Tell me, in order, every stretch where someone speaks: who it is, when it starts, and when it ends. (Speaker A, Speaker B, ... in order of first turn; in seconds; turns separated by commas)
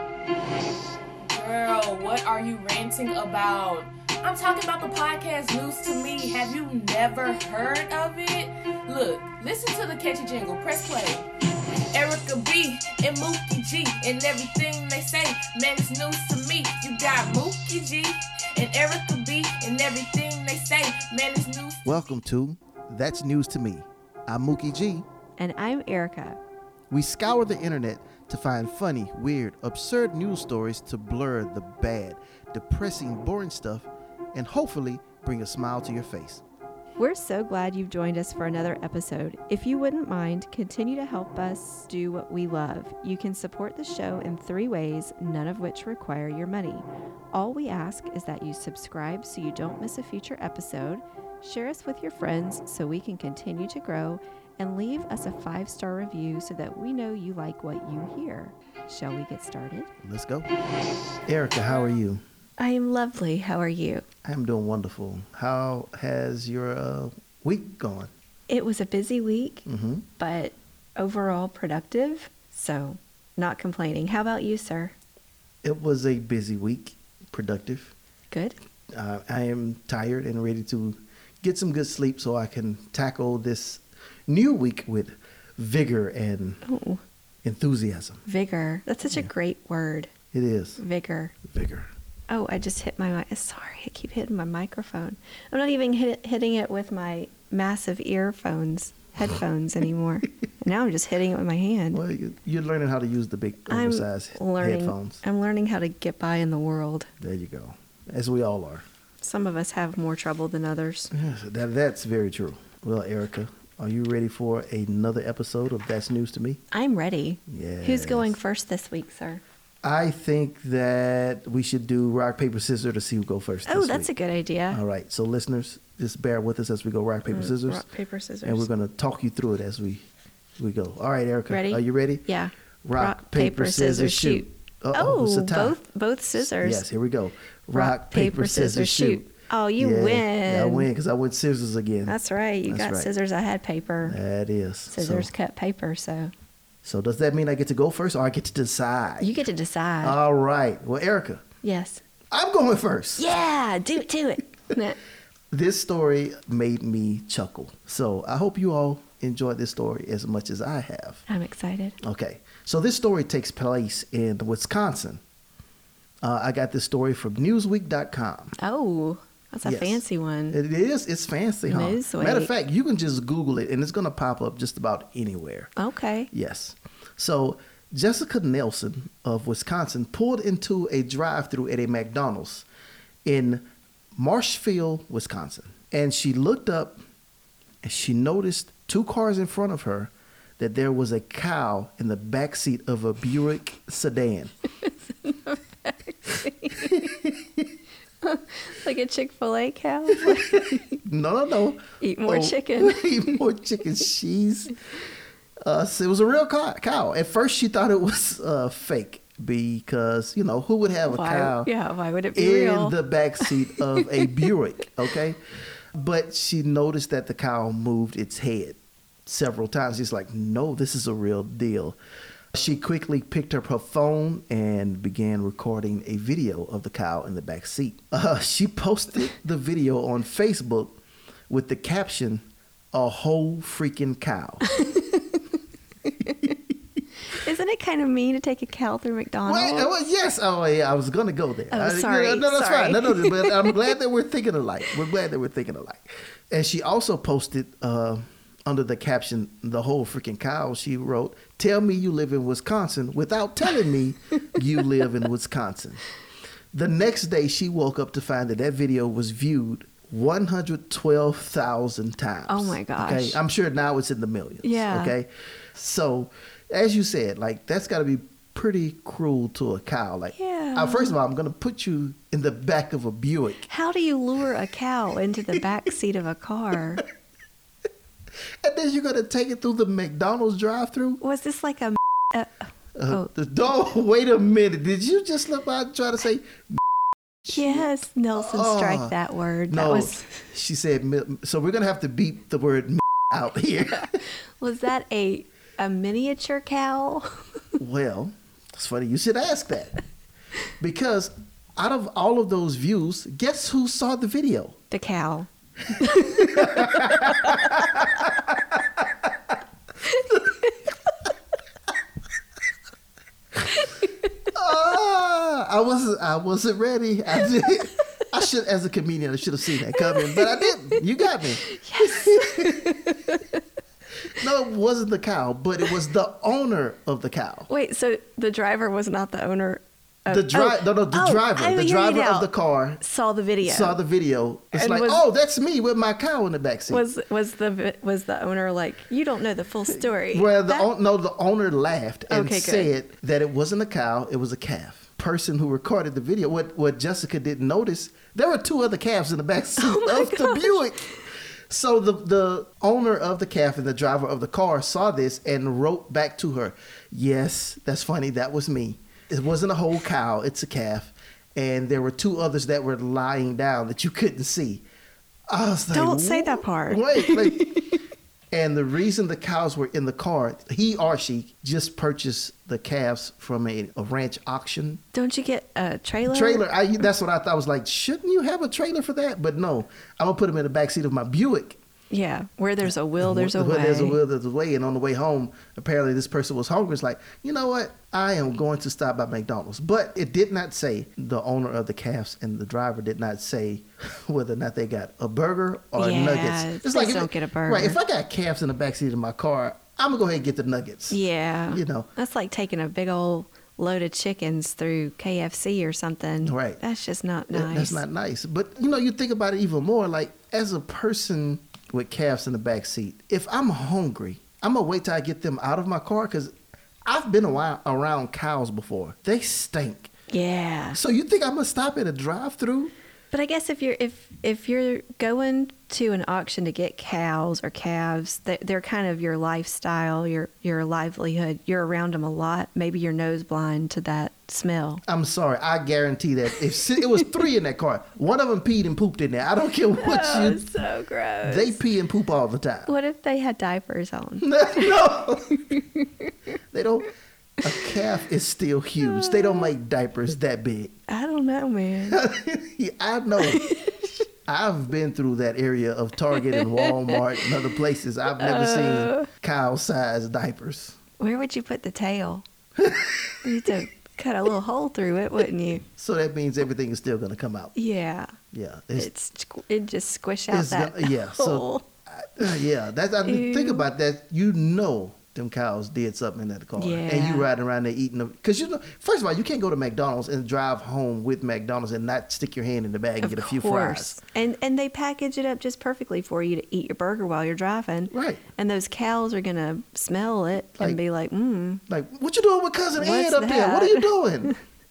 Speaker A: 1.2-11.3, Speaker A: 11.9-22.2, Speaker B: 21.8-25.1, Speaker C: 25.4-26.4, Speaker B: 26.9-36.4, Speaker C: 37.0-59.9, Speaker B: 60.0-60.5, Speaker B: 61.2-62.2, Speaker C: 62.6-64.0, Speaker B: 64.2-68.1, Speaker C: 68.5-69.7, Speaker B: 69.7-70.0, Speaker C: 70.2-74.9, Speaker B: 75.6-77.9, Speaker C: 78.3-78.6, Speaker B: 78.9-86.7, Speaker C: 86.6-87.0, Speaker B: 87.4-88.2, Speaker C: 88.2-90.1, Speaker B: 90.3-90.8, Speaker C: 90.8-91.3, Speaker B: 91.4-91.9, Speaker C: 92.3-102.0, Speaker B: 101.9-105.2, Speaker C: 103.7-107.1, Speaker B: 107.2-108.8, Speaker C: 109.2-111.1, Speaker B: 111.1-116.6, Speaker C: 116.7-119.4, Speaker B: 117.5-118.3, Speaker B: 119.8-124.1, Speaker C: 123.7-124.8, Speaker B: 124.7-127.8, Speaker C: 127.3-128.7, Speaker B: 128.4-130.0, Speaker B: 130.6-132.2, Speaker C: 131.5-136.8, Speaker B: 132.8-135.8, Speaker B: 136.4-139.2, Speaker C: 137.7-140.9, Speaker B: 139.8-142.1, Speaker C: 142.1-144.2, Speaker B: 142.7-143.1, Speaker B: 144.0-145.3, Speaker C: 144.9-146.3, Speaker B: 146.8-149.4, Speaker C: 149.2-150.2, Speaker B: 150.0-151.4, Speaker C: 151.6-152.0, Speaker B: 152.3-153.3, Speaker C: 153.2-155.0, Speaker B: 155.5-161.2, Speaker C: 161.3-162.0, Speaker B: 162.0-165.2, Speaker B: 166.2-168.6, Speaker C: 168.6-170.6, Speaker B: 169.6-175.7, Speaker C: 171.7-172.5, Speaker C: 175.8-176.3, Speaker B: 176.3-182.6, Speaker B: 183.2-183.6, Speaker B: 184.2-187.0, Speaker B: 187.8-194.5, Speaker C: 194.8-197.2, Speaker B: 196.8-197.7, Speaker C: 198.2-201.0, Speaker B: 200.2-204.8, Speaker C: 202.0-203.4, Speaker B: 205.6-211.7, Speaker C: 211.1-214.3, Speaker B: 212.3-215.4, Speaker B: 215.9-222.0, Speaker B: 222.5-231.0, Speaker B: 231.5-234.7, Speaker C: 234.7-235.4, Speaker C: 236.1-236.5, Speaker C: 237.3-239.9, Speaker B: 239.4-256.1, Speaker C: 241.7-243.7, Speaker B: 256.7-273.7, Speaker C: 262.5-263.4, Speaker C: 264.6-265.1, Speaker C: 270.3-271.2, Speaker C: 273.7-277.0, Speaker B: 278.6-281.2, Speaker C: 281.2-283.3, Speaker B: 282.9-286.8, Speaker B: 287.4-289.1, Speaker C: 287.5-290.4, Speaker B: 289.7-294.2, Speaker C: 293.9-297.6, Speaker B: 297.8-300.0, Speaker B: 300.8-304.8, Speaker C: 304.9-307.9, Speaker B: 306.5-308.8, Speaker C: 310.0-310.9, Speaker C: 313.7-314.2, Speaker B: 314.5-322.9, Speaker C: 319.9-321.0, Speaker C: 321.6-323.6, Speaker B: 324.3-327.7, Speaker C: 327.7-332.5, Speaker B: 330.3-333.0, Speaker C: 333.0-334.0, Speaker B: 333.6-337.0, Speaker C: 334.7-335.2, Speaker C: 336.9-340.9, Speaker B: 340.3-351.2, Speaker C: 342.3-342.9, Speaker C: 349.8-351.0, Speaker B: 351.7-364.8, Speaker B: 365.5-367.8, Speaker C: 365.9-368.0, Speaker B: 368.5-375.0, Speaker C: 375.1-376.6, Speaker B: 376.3-381.8, Speaker C: 382.1-384.2, Speaker B: 382.8-402.1, Speaker C: 396.0-398.0, Speaker C: 401.1-408.0, Speaker B: 406.4-406.8, Speaker B: 407.5-416.5, Speaker B: 417.0-420.1, Speaker C: 420.3-421.0, Speaker B: 420.9-422.9, Speaker C: 423.3-435.0, Speaker B: 435.1-440.6, Speaker C: 436.9-437.3, Speaker C: 440.0-441.8, Speaker B: 441.4-442.9, Speaker C: 442.9-446.3, Speaker B: 444.4-445.6, Speaker B: 446.7-450.9, Speaker C: 449.0-449.7, Speaker C: 451.1-452.2, Speaker B: 452.1-453.7, Speaker C: 453.4-454.1, Speaker B: 454.4-461.0, Speaker C: 456.3-457.5, Speaker C: 458.3-459.3, Speaker C: 461.2-462.4, Speaker B: 462.8-463.4, Speaker C: 463.4-465.8, Speaker B: 465.9-467.7, Speaker C: 467.7-468.4, Speaker B: 468.5-469.1, Speaker C: 469.0-471.9, Speaker B: 470.5-484.2, Speaker C: 473.2-473.9, Speaker C: 476.8-477.5, Speaker C: 483.2-491.8, Speaker B: 488.1-488.4, Speaker B: 491.9-494.6, Speaker C: 493.0-494.5